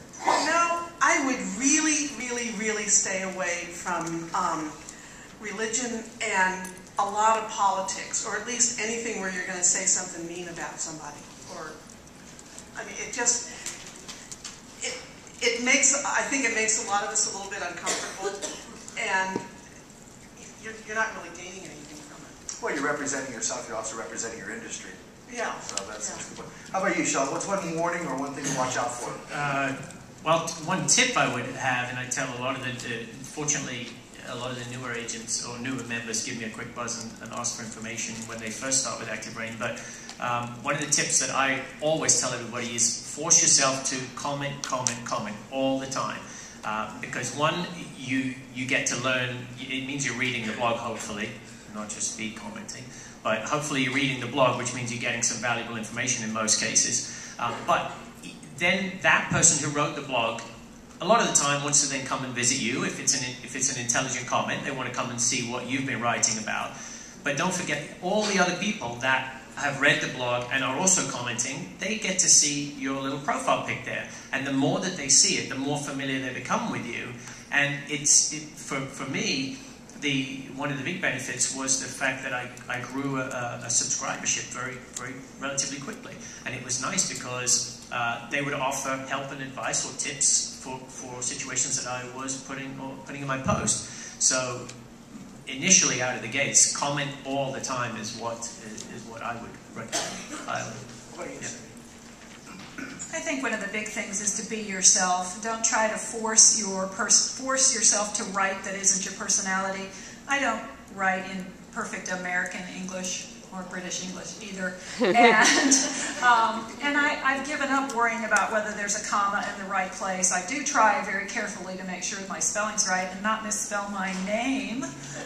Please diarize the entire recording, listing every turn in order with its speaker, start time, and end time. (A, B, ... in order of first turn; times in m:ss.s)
0:00.2-0:04.8 A
0:05.4-0:11.8 A
0:12.7-0:13.4 A
0:14.8-0:19.5 A
0:20.4-0:22.4 A
0:22.6-0:25.0 B
0:25.3-0:26.2 A
0:25.6-0:29.2 B
0:29.3-1:00.4 C
1:01.0-1:40.8 C
1:41.1-1:41.5 B
1:43.1-2:04.9 D